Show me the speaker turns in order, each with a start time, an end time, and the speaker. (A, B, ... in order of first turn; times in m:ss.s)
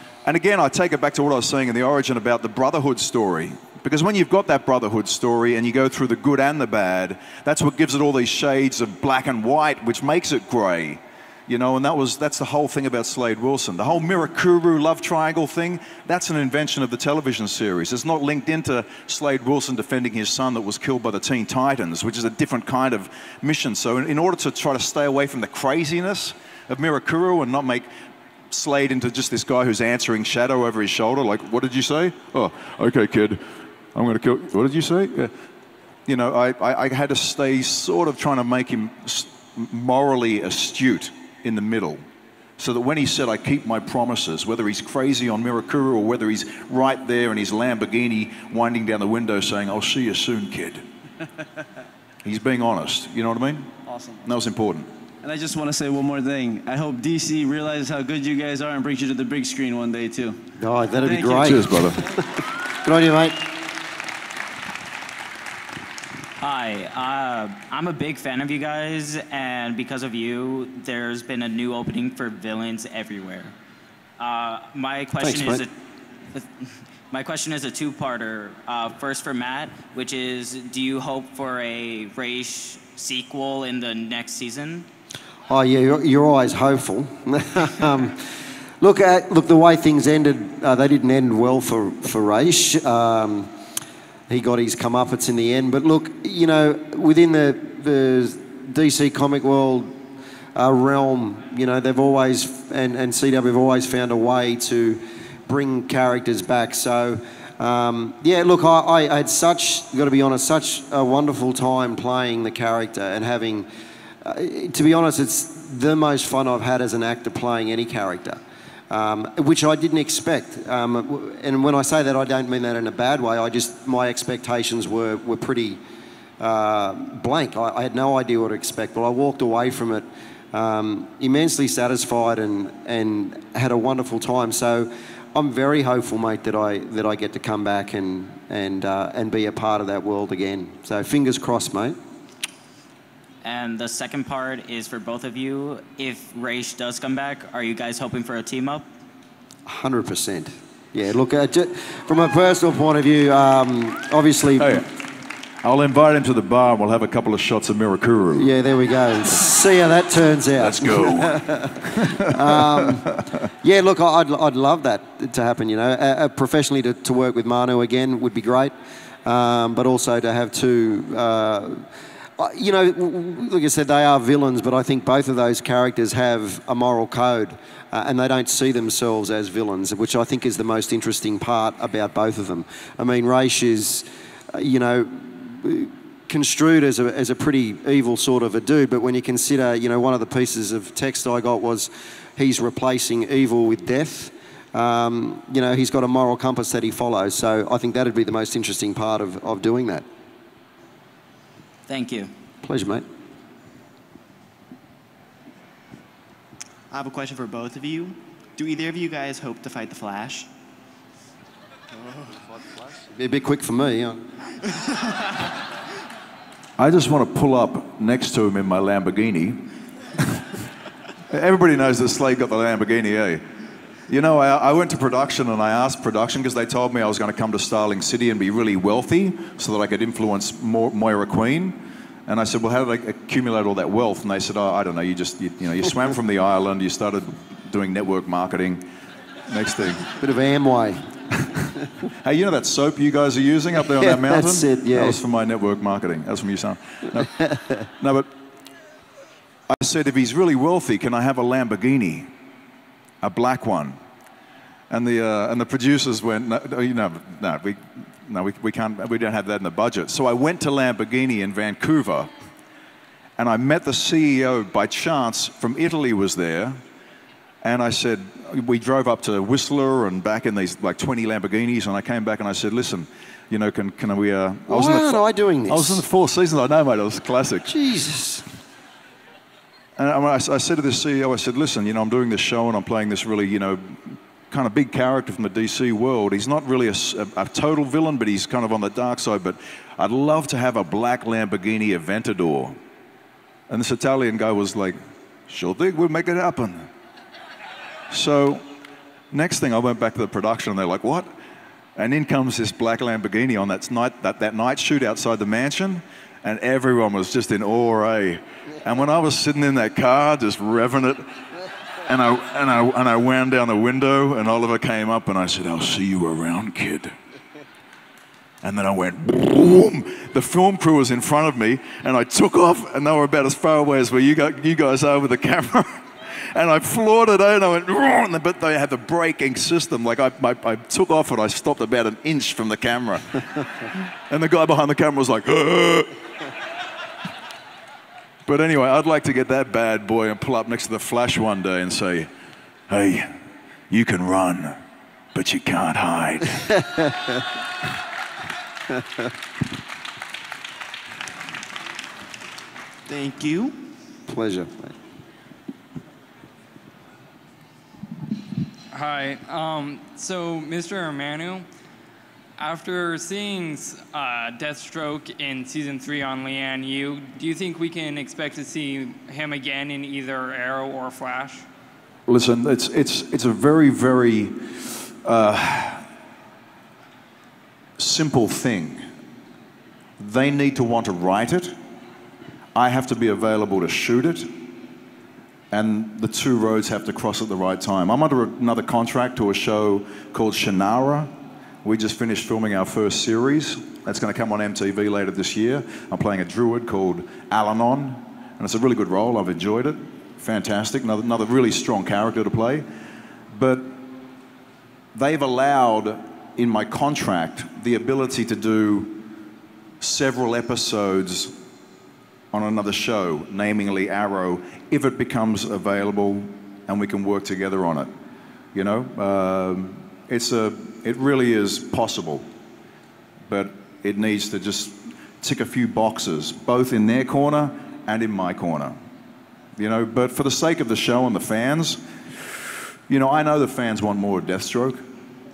0:00.2-0:27.9 A
0:28.5-0:33.4 A
0:33.9-0:35.3 A
0:36.1-0:42.0 A
0:42.6-0:50.8 A
0:52.2-0:53.7 A
0:53.9-0:54.2 B
0:54.2-0:54.9 A
0:55.2-1:00.5 B
1:00.6-1:02.1 C
1:01.0-1:01.8 B
1:01.4-1:02.0 A
1:02.7-1:03.4 C
1:06.4-1:13.5 D
1:14.2-1:15.7 D
1:15.2-1:15.6 C
1:16.3-1:24.9 D
1:25.5-1:28.2 C
1:28.8-1:33.5 C
1:34.3-1:40.0 C
1:40.6-1:53.7 C
1:54.2-1:58.4 C
1:58.9-2:05.8 C
2:06.4-2:22.0 C
2:23.4-2:28.9 D
2:29.7-2:34.8 C
2:34.6-2:34.9 A
2:35.6-2:38.5 A
2:38.4-2:48.7 C
2:40.6-2:42.9 A
2:49.2-2:51.9 C
2:52.4-3:20.1 C
3:21.9-3:22.3 D
3:22.6-3:23.1 C
3:26.9-3:30.5 E
3:33.1-3:34.3 C
3:36.8-3:40.5 A
3:41.3-3:43.4 A
3:44.1-3:58.9 A
3:59.5-4:00.1 A
4:00.2-4:01.1 C
4:02.2-4:07.3 A
4:04.0-4:05.2 C
4:07.4-4:07.8 C
4:08.0-4:08.3 A
4:09.7-4:12.3 A
4:13.2-4:14.0 A
4:14.9-4:22.3 A
4:23.4-4:26.8 A
4:27.6-4:37.7 A
4:34.7-4:36.0 C
4:37.7-4:38.4 C
4:40.0-4:52.8 A
4:53.7-4:56.9 A
4:58.1-4:58.6 A
4:59.3-5:01.3 A
5:02.0-5:11.4 A
5:12.0-5:17.2 A
5:18.6-5:36.5 A
5:38.5-5:42.3 A
5:42.9-5:43.4 A
5:43.9-5:44.8 A
5:45.3-5:46.8 A
5:53.1-5:53.8 E
5:54.3-5:55.0 C
5:58.9-6:01.7 F
6:02.6-6:11.6 F
6:12.3-6:16.1 A
6:18.0-6:19.0 A
6:20.2-6:21.8 A
6:22.8-6:24.6 A
6:25.7-6:31.3 A
6:31.8-6:42.9 A
6:43.5-6:44.0 A
6:45.1-6:49.2 A
6:50.0-6:51.6 A
6:52.5-6:58.1 A
6:58.7-7:02.5 A
7:03.5-7:09.0 A
7:09.8-7:12.0 A
7:13.1-7:15.0 A